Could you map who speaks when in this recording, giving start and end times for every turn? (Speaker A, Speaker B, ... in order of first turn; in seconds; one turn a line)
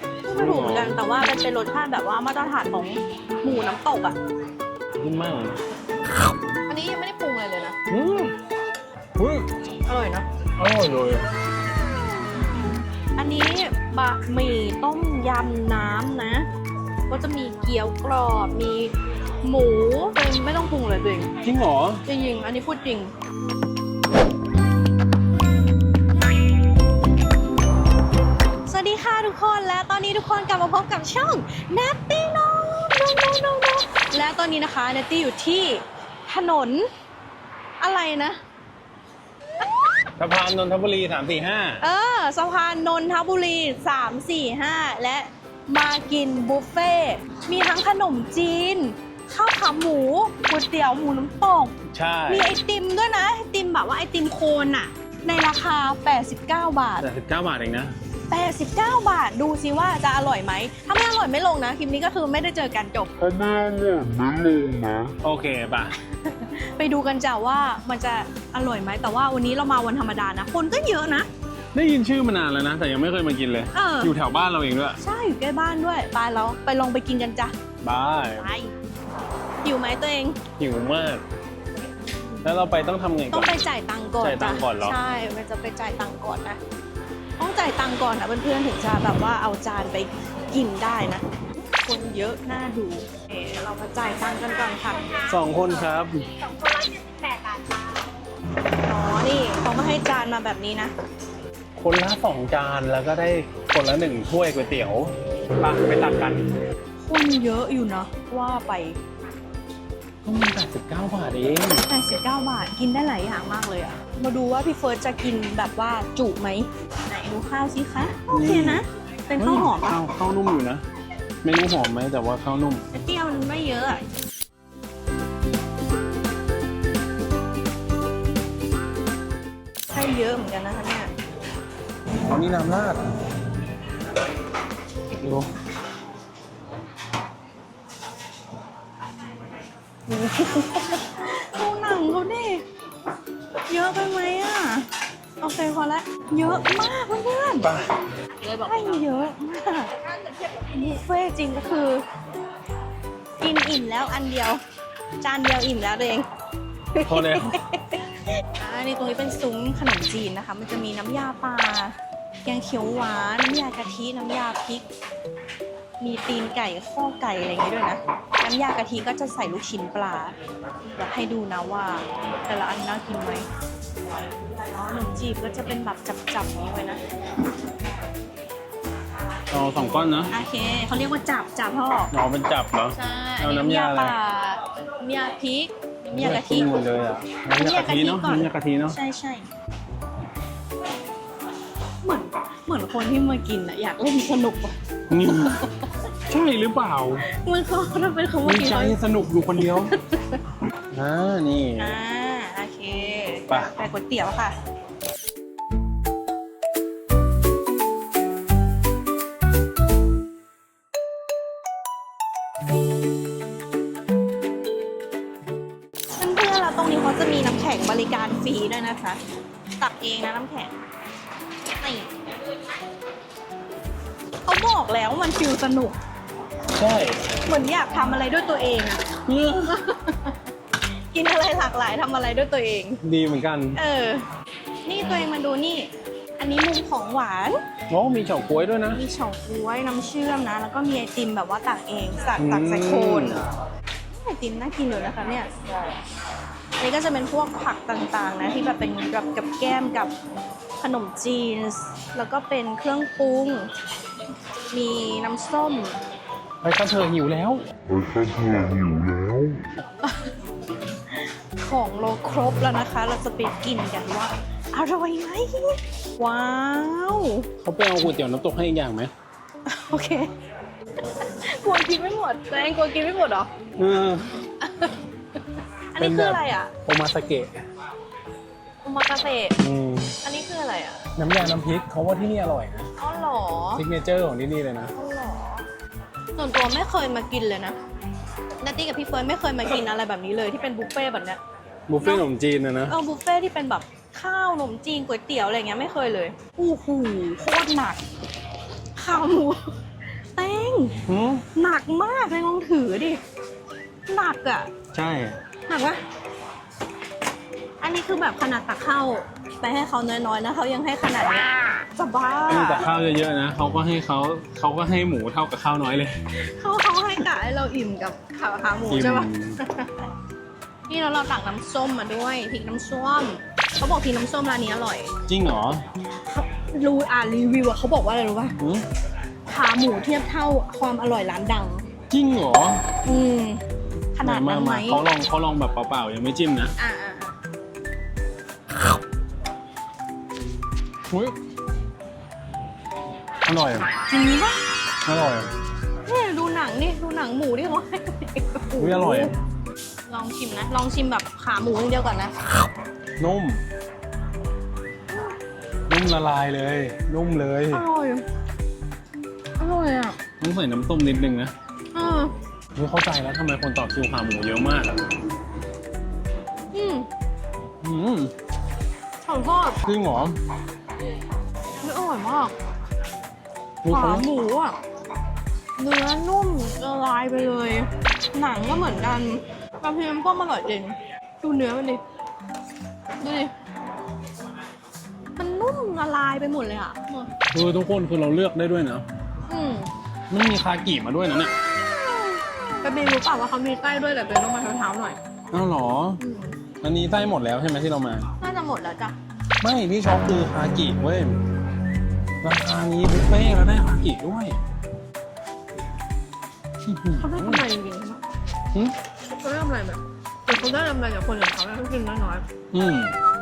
Speaker A: 0.2-4.2
Speaker B: 0.3-1.0
Speaker B: 5.0-5.6
Speaker A: 6.7-7.8
Speaker B: 7.9-8.3
Speaker B: 9.2-9.5
Speaker A: 9.9-10.3
Speaker B: 10.6-11.3
Speaker A: 13.2-16.5
Speaker A: 17.1-18.9
Speaker A: 19.4-21.3
Speaker B: 21.4-22.0
Speaker A: 22.1-23.1
Speaker A: 28.7-36.9
Speaker A: 37.8-38.4
Speaker B: 40.2-41.8
Speaker A: 41.8-51.8
Speaker B: 51.9-52.6
Speaker A: 52.3-57.1
Speaker B: 57.0-57.9
Speaker A: 58.3-63.1
Speaker C: 63.3-65.0
Speaker B: 65.2-66.0
Speaker A: 66.2-71.3
Speaker B: 71.7-75.0
Speaker A: 73.7-74.1
Speaker A: 75.0-77.5
Speaker B: 77.8-78.5
Speaker A: 78.4-78.7
Speaker A: 79.6-80.4
Speaker B: 80.6-81.2
Speaker B: 82.4-83.6
Speaker A: 83.3-86.6
Speaker B: 84.2-85.0
Speaker A: 87.4-95.2
Speaker B: 95.2-96.3
Speaker A: 96.6-97.6
Speaker A: 98.8-100.9
Speaker B: 101.8-106.5
Speaker A: 107.0-109.0
Speaker B: 110.2-111.9
Speaker A: 111.9-120.0
Speaker B: 118.3-118.8
Speaker B: 119.4-120.8
Speaker B: 121.4-122.9
Speaker A: 122.9-124.0
Speaker A: 129.9-131.1
Speaker B: 132.2-133.0
Speaker B: 135.1-135.5
Speaker A: 140.1-142.6
Speaker A: 143.7-144.9
Speaker A: 145.4-147.7
Speaker B: 147.6-147.9
Speaker A: 148.4-150.0
Speaker A: 150.5-152.0
Speaker A: 153.4-154.6
Speaker A: 155.2-156.3
Speaker A: 156.9-164.9
Speaker B: 157.1-157.6
Speaker A: 166.0-170.4
Speaker A: 170.9-173.5
Speaker A: 174.6-177.0
Speaker B: 179.5-180.3
Speaker A: 180.3-182.1
Speaker B: 182.1-184.1
Speaker A: 182.9-186.7
Speaker B: 186.2-189.0
Speaker A: 187.6-189.5
Speaker A: 192.0-194.8
Speaker B: 195.1-195.7
Speaker B: 196.3-197.2
Speaker A: 197.3-199.0
Speaker B: 198.4-199.9
Speaker A: 199.6-200.4
Speaker B: 200.9-202.0
Speaker A: 201.8-204.6
Speaker A: 216.2-219.2
Speaker A: 219.8-220.7
Speaker A: 221.7-222.1
Speaker A: 224.5-226.0
Speaker B: 226.8-227.2
Speaker A: 227.4-229.1
Speaker B: 229.3-229.8
Speaker A: 229.7-230.4
Speaker A: 231.1-233.0
Speaker B: 233.0-233.8
Speaker A: 233.8-234.2
Speaker A: 234.9-237.6
Speaker B: 237.9-239.0
Speaker A: 238.9-243.5
Speaker B: 242.4-243.4
Speaker A: 244.1-246.0
Speaker A: 246.8-250.1
Speaker A: 250.8-253.7
Speaker A: 254.7-256.0
Speaker B: 256.6-257.6
Speaker C: 258.0-259.3
Speaker A: 260.0-260.3
Speaker A: 261.6-267.5
Speaker B: 267.6-269.1
Speaker A: 269.7-270.3
Speaker A: 271.2-273.5
Speaker B: 273.8-274.3
Speaker A: 274.6-275.0
Speaker A: 275.9-276.7
Speaker B: 276.0-277.5
Speaker A: 278.8-279.6
Speaker B: 279.6-280.2
Speaker A: 280.2-281.0
Speaker B: 281.2-282.9
Speaker A: 283.0-283.8
Speaker B: 283.8-284.9
Speaker A: 284.9-285.6
Speaker A: 286.4-287.8
Speaker A: 288.6-291.4
Speaker B: 291.9-292.9
Speaker A: 292.9-298.0
Speaker A: 299.0-299.6
Speaker A: 300.4-301.0
Speaker B: 301.1-301.4
Speaker A: 301.5-303.2
Speaker A: 304.1-304.7
Speaker B: 304.9-305.4
Speaker A: 305.7-306.0
Speaker A: 307.8-312.9
Speaker B: 312.5-316.1
Speaker A: 316.3-320.1
Speaker B: 318.9-319.6
Speaker A: 320.9-325.1
Speaker B: 325.3-325.8
Speaker A: 326.3-328.6
Speaker B: 328.6-328.9
Speaker A: 329.5-331.9
Speaker B: 332.1-332.8
Speaker A: 333.1-333.6
Speaker A: 334.1-335.0
Speaker B: 334.2-336.7
Speaker A: 336.8-337.3
Speaker B: 341.1-341.4
Speaker B: 343.4-343.9
Speaker A: 344.1-344.6
Speaker B: 345.1-345.5
Speaker A: 346.1-349.3
Speaker B: 348.8-349.3
Speaker A: 350.1-352.4
Speaker B: 353.2-353.6
Speaker B: 355.9-357.8
Speaker A: 357.7-358.2
Speaker A: 359.6-360.2
Speaker B: 360.4-361.5
Speaker A: 361.9-362.3
Speaker B: 362.8-365.0
Speaker A: 366.7-367.1
Speaker B: 367.8-368.3
Speaker A: 369.3-369.8
Speaker B: 369.8-370.4
Speaker A: 371.8-372.6
Speaker B: 373.8-374.3
Speaker A: 373.9-374.8
Speaker A: 375.8-382.0
Speaker A: 383.2-383.5
Speaker A: 385.4-387.3
Speaker B: 387.5-389.1
Speaker A: 389.5-389.9
Speaker B: 390.3-391.6
Speaker A: 392.1-395.2
Speaker B: 395.5-396.2
Speaker A: 396.2-396.6
Speaker B: 396.8-398.3
Speaker A: 398.4-399.1
Speaker B: 399.6-401.4
Speaker B: 402.4-404.6
Speaker B: 406.9-407.7
Speaker A: 407.2-408.2
Speaker A: 409.4-412.4
Speaker B: 412.7-413.2